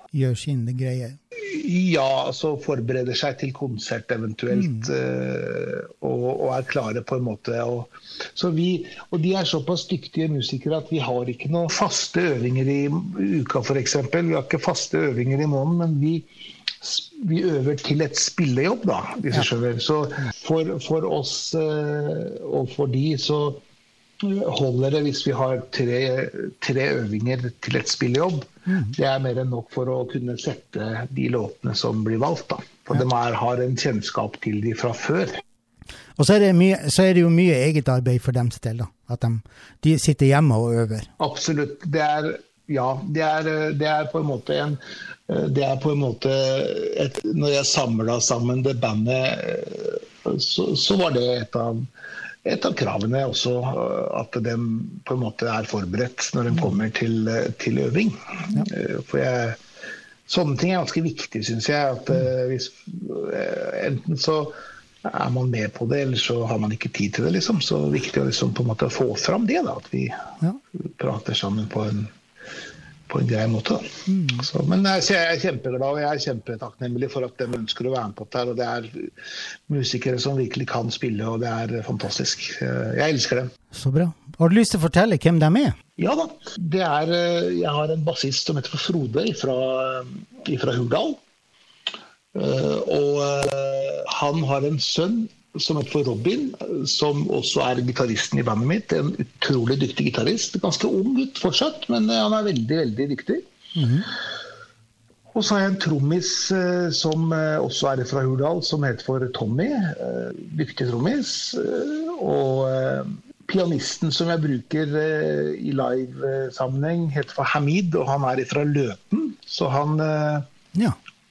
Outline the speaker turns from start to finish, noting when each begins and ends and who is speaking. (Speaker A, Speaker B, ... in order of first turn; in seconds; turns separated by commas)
Speaker A: 0.1-1.2, Speaker B: 1.4-16.3, Speaker A: 4.5-4.9, Speaker B: 16.8-23.6, Speaker B: 24.2-35.4, Speaker A: 28.7-29.0, Speaker A: 36.2-41.1, Speaker B: 41.2-51.9, Speaker B: 52.4-59.6, Speaker B: 60.3-70.3, Speaker B: 70.8-72.1, Speaker B: 73.1-79.1, Speaker A: 74.1-74.5, Speaker B: 79.7-83.5, Speaker A: 83.7-85.8, Speaker B: 86.0-91.2, Speaker B: 92.3-103.4, Speaker A: 103.8-104.1, Speaker B: 105.3-120.5